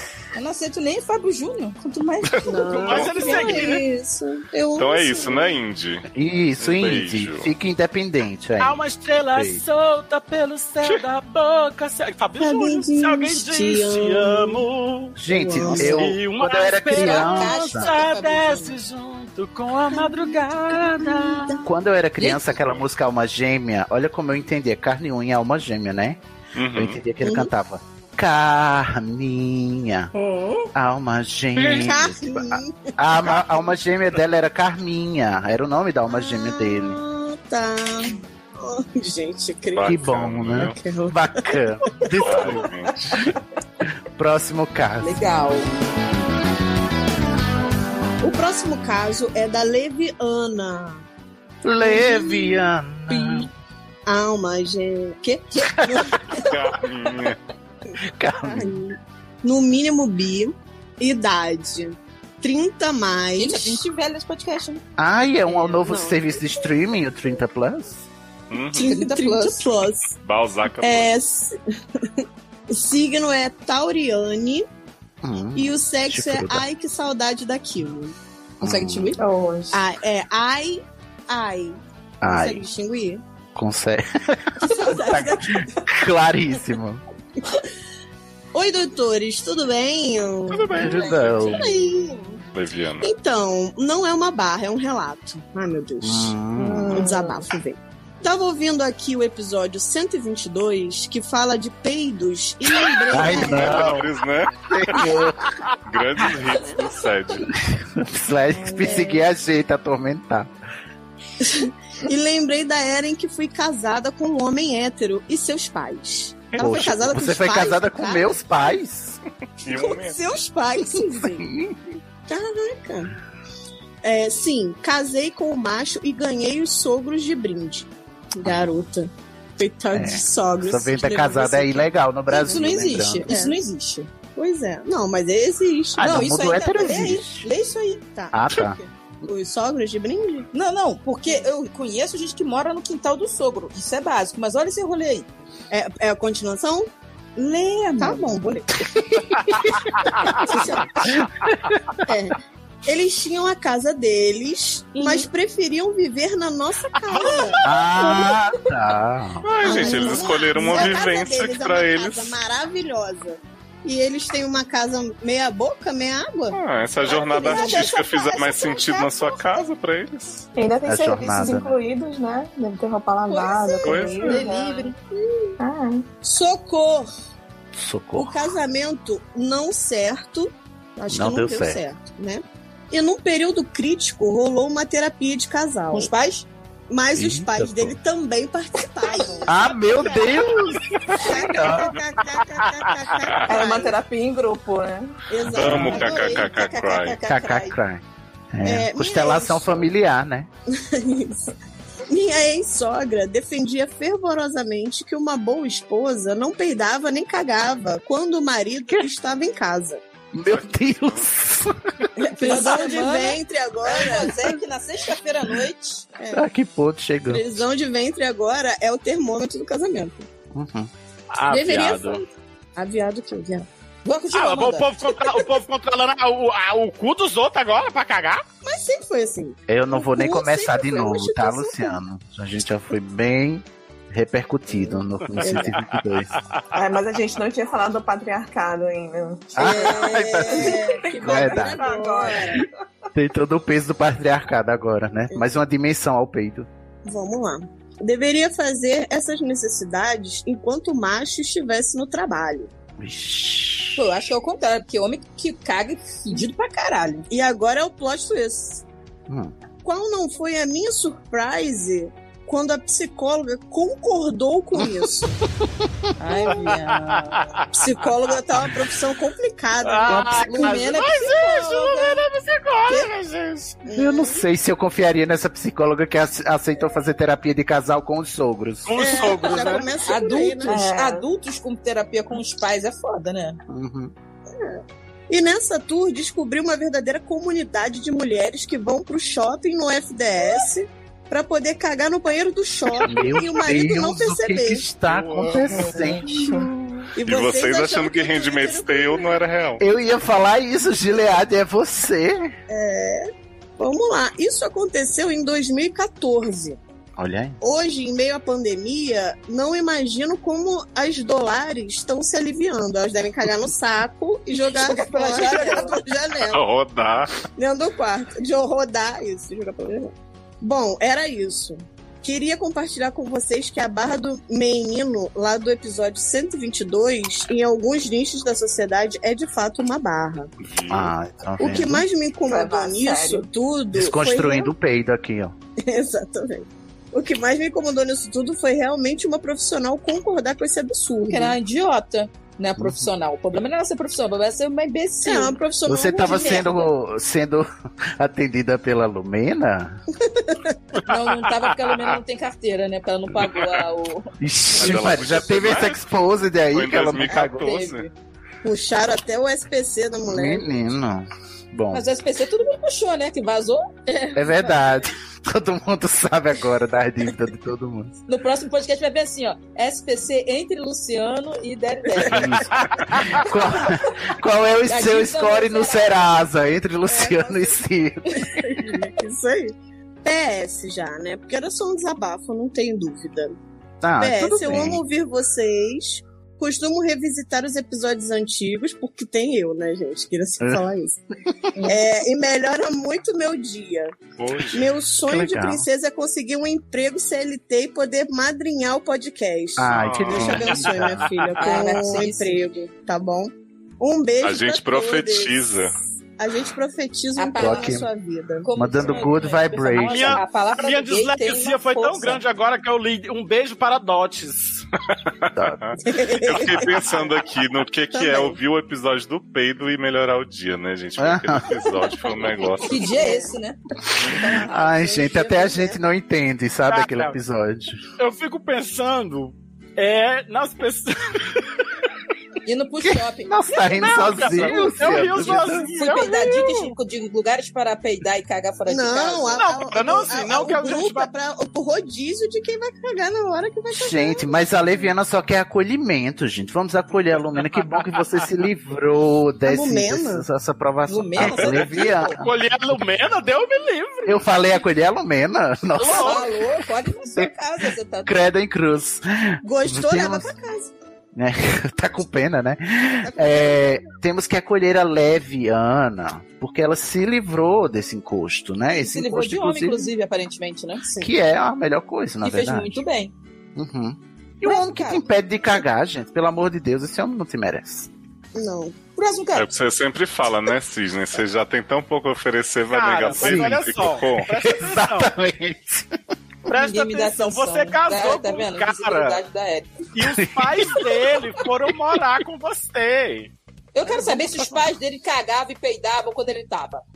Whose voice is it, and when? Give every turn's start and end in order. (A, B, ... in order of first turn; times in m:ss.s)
0:00.3-0:02.6 A
0:02.3-0:03.7 B
0:02.4-0:05.6 C
0:02.6-0:03.9 D
0:04.8-0:06.1 B
0:06.1-0:09.6 E
0:06.6-0:07.5 B
0:08.6-0:21.6 D
0:12.4-0:14.6 C
0:15.2-0:17.9 E
0:15.3-0:16.1 C
0:16.9-0:18.8 A
0:19.9-0:21.6 C
0:21.6-0:26.2 E
0:22.2-0:22.6 A
0:26.6-0:27.0 B
0:26.7-0:30.1 E
0:27.2-0:27.5 C
0:30.7-0:37.0 E
0:31.7-0:33.6 C
0:36.1-0:40.0 C
0:39.7-0:40.8 B
0:39.9-0:43.3 E
0:40.6-0:42.2 C
0:42.2-0:43.2 B
0:44.1-0:45.2 E
0:45.0-0:45.7 A
0:48.2-0:51.0 C
0:51.6-0:53.5 E
0:51.8-0:52.7 C
0:54.0-0:56.6 C
0:55.8-0:56.2 E
0:56.3-0:57.4 B
0:58.1-0:58.8 E
0:58.4-1:03.8 C
1:03.4-1:04.8 A
1:05.0-1:08.1 E
1:05.7-1:06.5 C
1:08.5-1:08.9 B
1:08.7-1:10.1 C
1:08.8-1:09.8 A
1:10.2-1:11.1 B
1:10.8-1:14.6 C
1:15.2-1:16.6 E
1:15.6-1:18.1 C
1:18.6-1:19.1 E
1:18.6-1:19.2 A
1:19.2-1:19.8 F
1:19.7-1:23.2 C
1:22.2-1:22.6 E
1:23.6-1:27.0 E
1:24.6-1:25.8 C
1:28.5-1:32.4 C
1:30.5-1:31.8 B
1:30.7-1:31.7 E
1:31.0-1:31.5 A
1:32.5-1:33.1 B
1:33.0-1:43.9 C
1:36.0-1:37.1 E
1:37.0-1:37.4 F
1:43.1-1:44.1 E
1:43.2-1:45.1 B
1:44.7-1:45.5 E
1:45.9-1:47.5 B
1:47.5-1:50.5 E
1:48.6-1:49.2 C
1:51.4-1:58.8 C
1:56.6-1:59.2 E
1:59.6-2:00.4 B
1:59.7-2:01.5 C
2:00.9-2:01.8 E
2:02.3-2:03.1 C
2:04.0-2:13.6 C
2:09.9-2:13.3 E
2:12.3-2:14.1 A
2:14.4-2:17.2 C
2:16.0-2:17.4 E
2:16.0-2:18.0 A
2:18.1-2:20.5 C
2:18.3-2:18.8 E
2:20.5-2:25.3 A
2:25.7-2:26.9 C
2:27.4-2:28.3 A
2:28.0-2:28.9 C
2:30.3-2:31.2 C
2:31.1-2:31.8 E
2:32.0-2:37.6 C
2:34.9-2:35.3 A
2:37.0-2:38.2 D
2:37.6-2:40.9 E
2:39.4-2:42.4 B
2:39.6-2:49.6 C
2:39.8-2:40.1 A
2:46.5-2:50.4 B
2:47.4-2:48.0 A
2:50.6-2:54.9 F
2:50.9-2:51.8 E
2:53.3-2:54.9 A
2:53.8-2:54.4 B
2:54.3-2:55.5 C
2:55.6-2:56.0 F
2:56.2-2:57.1 C
2:57.7-2:58.5 E
2:58.2-3:06.1 C
3:01.1-3:01.8 E
3:05.9-3:06.5 A
3:06.9-3:10.6 C
3:07.1-3:08.0 E
3:09.0-3:09.4 F
3:09.4-3:11.9 E
3:11.1-3:14.0 C
3:12.6-3:12.9 D
3:13.4-3:15.2 F
3:15.3-3:17.8 C
3:15.5-3:17.2 B
3:15.6-3:16.2 E
3:17.2-3:20.5 E
3:18.6-3:19.8 C
3:20.7-3:21.5 C
3:22.1-3:30.0 C
3:30.3-3:32.1 E
3:30.5-3:31.3 B
3:32.2-3:34.5 C
3:32.4-3:36.0 A
3:36.2-3:36.5 C
3:36.3-3:37.6 E
3:37.3-3:40.3 C
3:40.5-3:40.9 E
3:41.3-3:42.2 D
3:41.5-3:43.7 C
3:44.0-3:44.9 A
3:44.3-3:48.4 D
3:45.2-3:45.4 C
3:48.6-3:52.0 C
3:49.7-3:56.3 E
3:54.7-3:55.8 C
3:56.7-4:02.7 F
3:59.6-4:01.9 E
3:59.6-4:02.6 C
4:03.1-4:06.7 E
4:07.0-4:12.7 C
4:13.0-4:14.0 E
4:14.0-4:17.3 A
4:17.3-4:18.8 C
4:19.3-4:19.5 E
4:19.8-4:25.3 C
4:26.2-4:27.4 A
4:26.5-4:28.4 D
4:27.7-4:30.8 C
4:29.8-4:33.8 D
4:30.1-4:30.4 E
4:30.4-4:32.2 A
4:33.8-4:34.4 C
4:33.9-4:39.2 E
4:38.8-4:39.9 D
4:39.0-4:40.9 C
4:40.0-4:43.6 A
4:40.6-4:41.3 F
4:43.7-4:44.1 E
4:44.6-4:54.8 C
4:53.0-4:57.0 E
4:55.0-4:55.7 B
4:55.7-4:56.7 F
4:57.1-4:59.4 C
4:57.2-4:59.8 B
4:59.8-5:02.5 E
5:02.7-5:03.2 C
5:03.8-5:06.8 C
5:07.2-5:07.6 E
5:07.6-5:16.6 C
5:14.9-5:16.0 A
5:15.3-5:15.8 F
5:16.5-5:17.4 B
5:17.6-5:30.5 C
5:30.6-5:31.1 B
5:30.9-5:32.0 E
5:31.6-5:34.7 C
5:32.4-5:33.5 F
5:33.9-5:35.6 E
5:35.8-5:41.6 C
5:41.3-5:45.6 A
5:42.8-5:43.1 E
5:45.2-5:46.8 C
5:45.8-5:50.0 E
5:46.2-5:46.7 A
5:50.2-5:50.8 C
5:51.0-5:54.3 A
5:51.1-5:52.0 D
5:54.4-5:57.8 E
5:54.8-5:56.0 B
5:56.7-5:58.1 B
5:57.5-5:58.1 A
5:58.6-6:00.7 C
6:00.3-6:02.0 E
6:01.9-6:04.2 A
6:04.3-6:08.2 E
6:08.3-6:12.6 A
6:12.3-6:18.9 E
6:12.5-6:13.4 D
6:14.9-6:16.2 A
6:17.1-6:17.8 C
6:18.4-6:23.6 C
6:24.0-6:25.0 E
6:24.2-6:31.2 C
6:31.8-6:34.2 C
6:34.4-6:34.9 B
6:34.7-6:48.7 C
6:35.2-6:35.9 E
6:39.8-6:41.2 E
6:39.9-6:41.1 B
6:40.6-6:41.8 D
6:41.6-6:42.6 A
6:44.4-6:45.9 B
6:47.4-6:48.0 A
6:47.6-6:48.1 E
6:48.6-6:52.4 A
6:48.7-6:50.4 E
6:50.0-6:54.8 D
6:55.4-7:03.0 B
6:55.6-6:55.8 E
6:56.0-6:57.0 C
6:58.1-6:58.6 C
7:01.2-7:01.8 E
7:02.8-7:03.8 A
7:03.0-7:03.5 C
7:04.3-7:06.0 C
7:04.4-7:08.0 E
7:06.9-7:07.4 D
7:08.2-7:11.8 D
7:12.6-7:15.0 A
7:13.0-7:15.9 E
7:13.9-7:16.9 D
7:15.9-7:19.7 A
7:18.9-7:24.5 C
7:19.5-7:21.3 D
7:23.9-7:32.5 E
7:27.8-7:28.2 D
7:29.6-7:30.4 C
7:31.0-7:32.4 A
7:31.4-7:34.6 D
7:34.2-7:36.5 E
7:36.0-7:38.4 A
7:36.0-7:36.4 D
7:38.2-7:40.5 E
7:39.6-7:40.9 C
7:41.3-7:50.1 E
7:43.2-7:44.1 C
7:48.9-7:51.0 A
7:51.2-7:53.0 E
7:52.4-7:53.3 A
7:53.8-7:58.1 E
7:54.6-7:55.2 A
7:58.6-7:59.0 C
7:59.2-7:59.7 A
7:59.6-8:04.5 B
8:02.9-8:05.3 D
8:03.4-8:03.9 E
8:04.4-8:06.2 E
8:06.7-8:09.4 D
8:06.7-8:09.9 A
8:10.1-8:13.5 D
8:10.2-8:11.0 E
8:13.9-8:17.0 A